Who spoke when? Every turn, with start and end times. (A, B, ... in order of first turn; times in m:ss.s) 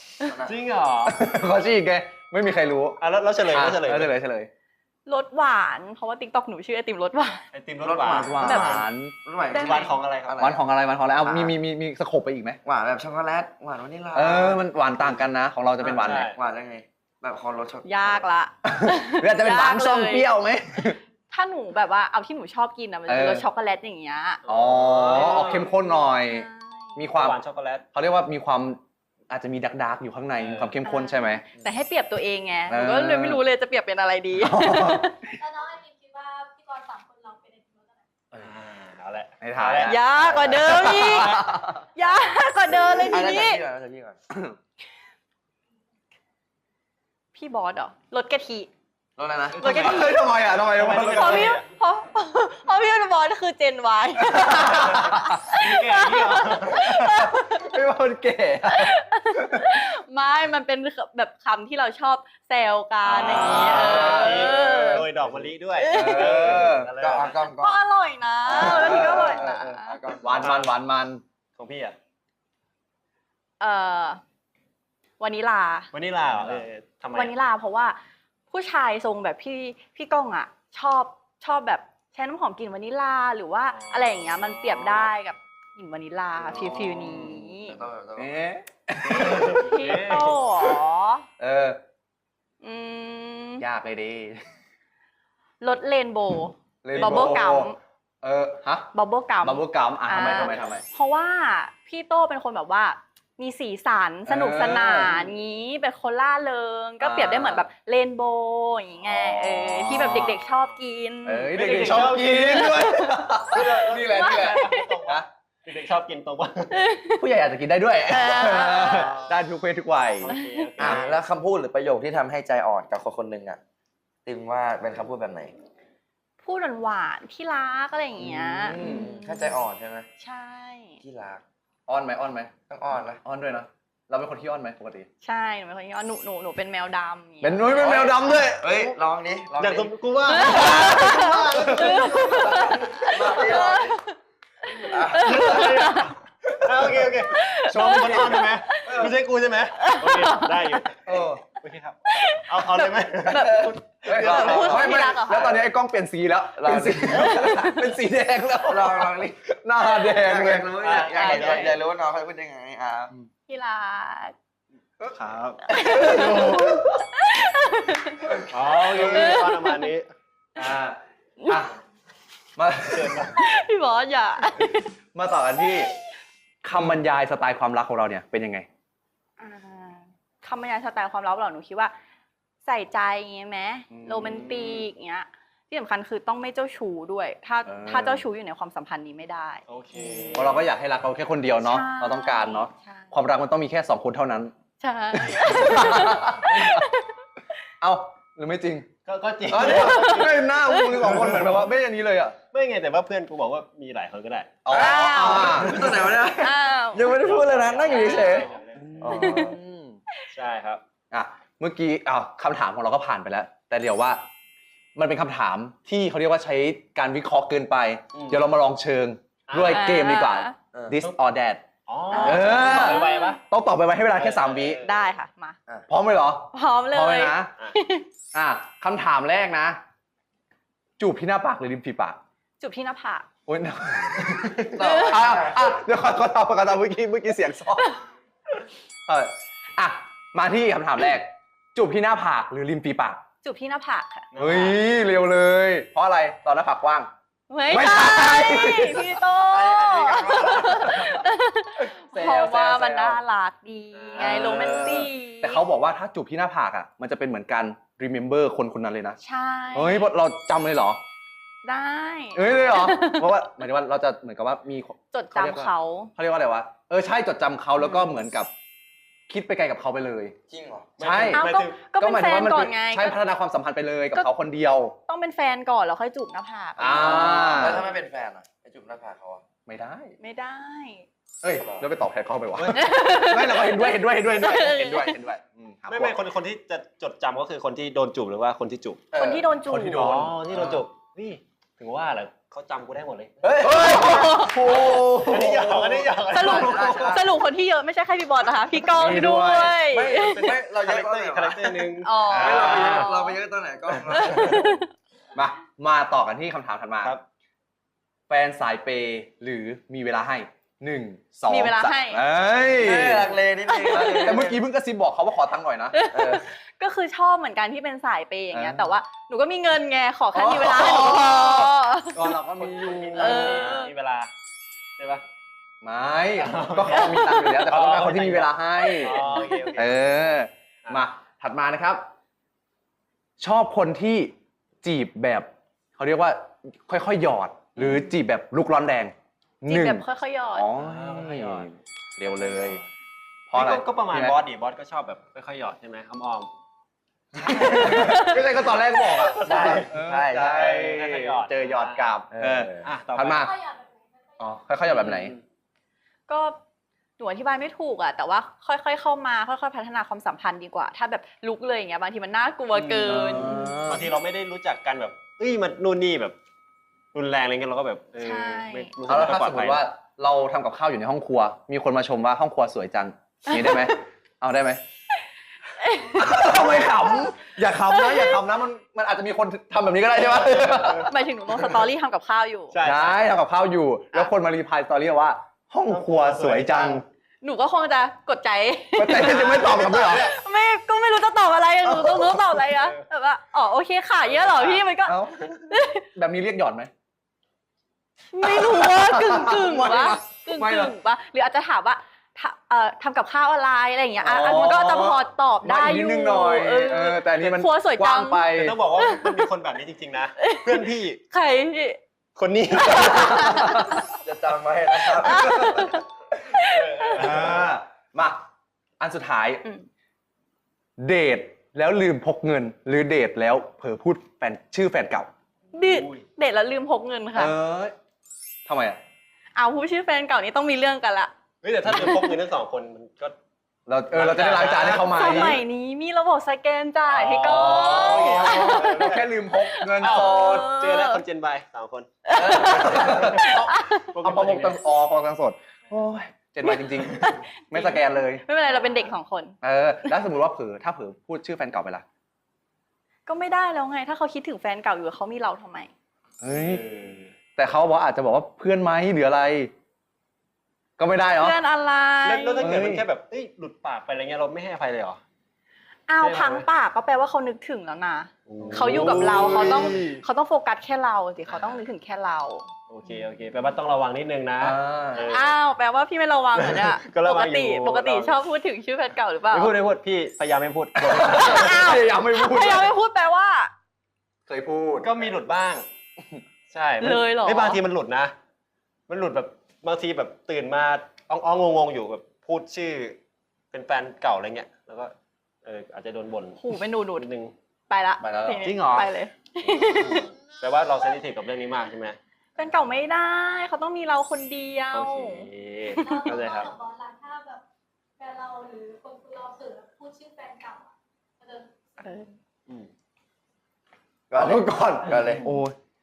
0:00.2-0:00.5 A
0:00.4-0:01.2 B
0:01.1-0:03.0 C
0:03.0-0:04.1 B
0:03.5-0:04.5 C
0:05.1-0:07.4 D
0:07.5-0:08.8 B
0:07.8-0:10.6 A
0:08.0-0:09.1 C
0:08.4-0:08.8 D
0:09.5-0:09.9 D
0:09.5-0:10.4 B
0:10.4-0:12.6 C
0:11.2-0:11.6 A
0:12.6-0:14.6 A
0:14.1-0:16.3 C
0:15.8-0:16.4 B
0:15.9-0:18.2 A
0:17.8-0:20.3 D
0:18.6-0:21.0 C
0:20.8-0:24.4 D
0:23.1-0:23.4 C
0:24.4-0:25.7 B
0:24.5-0:27.4 C
0:26.0-0:27.0 D
0:27.1-0:27.9 B
0:27.9-0:31.5 C
0:30.4-0:30.8 B
0:30.8-0:35.2 D
0:32.7-0:33.4 C
0:34.4-0:35.4 C
0:35.4-0:38.1 E
0:38.3-0:40.0 B
0:39.4-0:41.5 C
0:39.8-0:43.6 D
0:40.2-0:41.8 A
0:40.5-0:41.4 B
0:42.7-0:44.2 A
0:47.3-0:48.7 D
0:49.2-0:49.6 A
0:49.5-0:50.3 D
0:49.6-0:51.6 C
0:49.6-0:51.6 B
0:50.9-0:57.7 D
0:54.2-0:55.5 C
0:54.7-0:56.9 B
0:56.7-0:59.7 C
0:58.7-1:05.0 D
1:03.0-1:07.4 B
1:03.2-1:05.0 C
1:05.8-1:06.5 D
1:05.9-1:06.9 C
1:07.0-1:07.8 A
1:07.6-1:10.0 D
1:08.5-1:09.6 C
1:08.5-1:10.6 A
1:10.2-1:11.2 C
1:10.3-1:10.7 B
1:11.6-1:12.0 B
1:13.6-1:14.2 D
1:15.2-1:15.9 D
1:15.9-1:17.3 B
1:17.1-1:18.0 D
1:18.5-1:27.8 D
1:23.7-1:25.1 B
1:26.5-1:27.3 C
1:26.5-1:28.4 A
1:28.2-1:30.8 C
1:29.1-1:30.4 B
1:29.2-1:31.3 D
1:31.4-1:31.8 C
1:32.6-1:33.6 D
1:33.6-1:34.4 C
1:35.6-1:37.8 D
1:36.8-1:37.7 C
1:36.9-1:37.4 B
1:38.2-1:38.9 C
1:38.9-1:53.3 D
1:39.4-1:40.8 C
1:40.2-1:40.8 B
1:44.3-1:45.3 C
1:47.0-1:47.6 C
1:49.1-1:50.4 C
1:49.9-1:50.3 B
1:51.3-1:55.3 C
1:51.5-1:56.8 B
1:54.1-1:54.9 D
1:56.7-1:57.2 D
1:57.2-2:01.0 C
1:58.1-1:59.2 D
1:58.8-1:59.3 B
2:00.2-2:01.2 B
2:00.3-2:00.7 D
2:00.8-2:03.6 A
2:04.2-2:05.5 A
2:06.4-2:09.6 D
2:08.2-2:09.1 C
2:08.7-2:10.1 A
2:10.2-2:11.0 D
2:11.0-2:11.4 A
2:11.9-2:12.5 C
2:12.7-2:13.2 A
2:13.2-2:15.1 C
2:15.2-2:17.8 D
2:17.4-2:18.7 C
2:17.7-2:19.9 A
2:19.6-2:23.6 B
2:20.3-2:24.2 D
2:20.5-2:22.7 C
2:21.9-2:24.0 A
2:24.7-2:26.1 D
2:24.8-2:25.8 A
2:25.1-2:34.9 B
2:27.3-2:29.0 D
2:27.9-2:28.3 C
2:29.8-2:30.8 D
2:31.1-2:31.4 C
2:32.1-2:35.6 D
2:33.3-2:35.6 A
2:34.1-2:40.8 C
2:36.6-2:37.5 A
2:37.2-2:37.8 D
2:38.6-2:43.1 A
2:40.8-2:41.8 B
2:41.2-2:41.6 D
2:43.5-2:44.4 D
2:45.0-2:45.6 B
2:45.7-2:48.4 D
2:45.7-2:47.1 C
2:48.3-2:49.4 C
2:48.5-2:50.1 B
2:49.0-2:49.9 D
2:50.6-2:51.8 C
2:51.4-2:51.6 D
2:52.6-2:53.4 C
2:52.9-2:53.3 B
2:53.3-2:54.9 D
2:55.1-2:55.9 C
2:56.6-2:58.7 C
2:59.4-3:01.9 D
3:02.6-3:10.5 D
3:03.9-3:04.6 C
3:07.7-3:08.2 C
3:09.7-3:10.7 B
3:10.4-3:14.5 C
3:11.6-3:13.1 D
3:14.8-3:17.2 D
3:15.2-3:16.8 C
3:15.3-3:15.8 B
3:17.8-3:18.9 C
3:19.1-3:21.7 B
3:19.5-3:22.4 C
3:19.6-3:21.1 D
3:22.5-3:24.7 B
3:24.6-3:26.1 C
3:24.7-3:29.6 A
3:24.7-3:25.7 D
3:25.4-3:26.1 B
3:26.4-3:27.2 D
3:27.1-3:29.0 B
3:27.8-3:28.4 D
3:28.8-3:30.0 C
3:29.1-3:29.5 D
3:30.3-3:30.8 B
3:31.1-3:34.3 C
3:35.0-3:41.6 C
3:38.1-3:38.4 B
3:39.5-3:40.0 B
3:39.7-3:40.6 D
3:40.7-3:41.0 A
3:41.9-3:43.4 B
3:42.1-3:43.4 D
3:42.2-3:44.8 C
3:44.2-3:45.1 B
3:44.8-3:45.6 D
3:45.9-3:47.5 C
3:46.5-3:48.1 D
3:48.3-3:49.8 C
3:51.0-3:52.2 C
3:52.6-3:53.3 D
3:53.5-3:58.0 C
3:54.7-3:55.8 A
3:54.8-3:55.2 D
3:58.5-4:03.2 C
4:03.4-4:04.3 D
4:04.3-4:04.8 B
4:04.4-4:07.1 C
4:07.5-4:15.6 D
4:07.7-4:11.3 C
4:09.5-4:10.9 A
4:11.8-4:13.2 C
4:13.9-4:14.9 B
4:14.2-4:19.2 C
4:19.2-4:20.1 D
4:19.7-4:21.0 C
4:21.6-4:23.4 D
4:22.4-4:28.5 C
4:25.1-4:26.1 D
4:27.8-4:28.1 D
4:29.3-4:30.4 C
4:30.5-4:30.9 A
4:31.0-4:31.8 B
4:31.0-4:35.0 C
4:31.3-4:33.2 D
4:35.1-4:37.7 D
4:36.8-4:37.8 C
4:36.9-4:39.4 A
4:39.7-4:40.2 C
4:40.2-4:41.1 D
4:41.4-4:46.2 C
4:41.6-4:41.9 A
4:42.6-4:42.9 B
4:42.7-4:45.2 D
4:45.9-4:49.0 B
4:49.1-4:50.1 D
4:49.1-4:50.8 C
4:49.9-4:53.4 B
4:53.4-4:54.0 A
4:53.4-4:57.1 C
4:53.6-4:54.6 D
4:54.5-4:57.2 B
4:55.3-4:57.2 A
4:56.3-5:00.6 D
4:58.8-4:59.9 C
4:59.9-5:04.7 A
5:00.5-5:03.1 B
5:02.0-5:03.4 D
5:04.1-5:04.9 D
5:05.4-5:07.2 C
5:08.3-5:13.4 C
5:11.5-5:12.2 D
5:12.7-5:14.6 A
5:13.7-5:14.4 D
5:13.9-5:16.0 C
5:15.9-5:22.4 D
5:16.1-5:16.4 A
5:18.5-5:18.9 C
5:20.3-5:23.8 C
5:22.6-5:24.3 B
5:23.2-5:23.9 D
5:25.0-5:25.2 B
5:25.8-5:29.2 C
5:26.4-5:30.1 B
5:26.9-5:27.7 D
5:28.8-5:29.7 D
5:29.8-5:32.0 C
5:33.4-5:42.8 C
5:39.7-5:40.7 D
5:40.8-5:41.7 B
5:42.3-5:42.8 B
5:43.5-5:44.4 C
5:43.5-5:46.5 B
5:47.3-5:48.4 A
5:47.4-5:53.6 C
5:47.5-5:48.4 D
5:48.1-5:52.1 B
5:49.4-5:50.9 A
5:52.3-5:52.9 A
5:52.8-5:53.5 B
5:53.4-5:54.5 E
5:54.4-5:55.3 C
5:54.9-5:55.4 B
5:56.3-5:56.6 D
5:57.2-6:03.8 D
6:02.8-6:06.4 B
6:03.0-6:04.1 C
6:07.1-6:09.8 B
6:08.2-6:08.9 D
6:09.1-6:14.8 C
6:13.5-6:14.0 D
6:15.8-6:17.2 D
6:16.2-6:21.1 C
6:17.9-6:18.4 D
6:20.6-6:21.0 B
6:21.0-6:22.8 D
6:22.7-6:23.2 B
6:22.8-6:27.0 C
6:25.9-6:27.0 B
6:27.4-6:36.1 D
6:29.0-6:30.3 C
6:29.1-6:30.4 B
6:31.8-6:32.7 C
6:32.7-6:33.0 B
6:34.4-6:34.8 B
6:35.0-6:36.9 C
6:38.3-6:49.4 D
6:38.4-6:40.9 C
6:44.2-6:48.8 C
6:48.5-6:51.2 B
6:50.4-6:52.0 D
6:52.4-6:53.6 B
6:52.8-6:54.0 D
6:53.0-6:54.0 C
6:54.2-6:55.9 A
6:55.1-6:57.3 D
6:55.3-6:55.8 C
6:56.7-6:57.8 B
6:57.1-6:58.4 C
6:59.0-6:59.6 C
7:01.0-7:05.3 C
7:05.7-7:07.5 D
7:05.8-7:06.2 B
7:07.4-7:08.0 C
7:08.7-7:09.0 C
7:09.6-7:11.3 D
7:11.6-7:13.4 B
7:11.9-7:12.3 D
7:13.9-7:15.6 C
7:14.1-7:15.6 B
7:15.1-7:21.2 D
7:17.1-7:24.8 B
7:17.4-7:20.7 C
7:22.2-7:24.1 D
7:22.4-7:28.4 C
7:26.6-7:29.6 D
7:29.6-7:32.0 C
7:33.3-7:35.9 D
7:36.4-7:36.8 C
7:36.5-7:37.3 B
7:37.6-7:39.7 C
7:41.0-7:41.6 C
7:41.4-7:42.7 D
7:42.2-7:45.2 B
7:42.6-7:43.0 C
7:46.1-7:52.7 D
7:46.2-7:46.7 B
7:48.5-7:50.2 B
7:48.6-7:50.1 C
7:51.5-7:51.8 B
7:52.9-7:55.5 B
7:54.6-7:55.4 C
7:55.2-7:59.7 D
7:56.6-7:58.4 B
7:59.5-8:01.8 B
8:01.0-8:02.9 C
8:01.2-8:03.7 D
8:04.5-8:05.3 C
8:05.0-8:05.9 B
8:06.7-8:08.3 B
8:07.0-8:07.8 D
8:09.1-8:13.2 B
8:13.7-8:15.1 B
8:15.6-8:17.5 B
8:16.6-8:17.3 D
8:17.9-8:20.3 D
8:18.2-8:18.7 C
8:18.6-8:19.1 B
8:19.9-8:22.2 B
8:22.6-8:26.4 D
8:24.9-8:26.7 B
8:26.0-8:27.6 E
8:28.2-8:32.0 E
8:32.0-8:32.3 D
8:34.3-8:35.7 C
8:34.3-8:35.7 A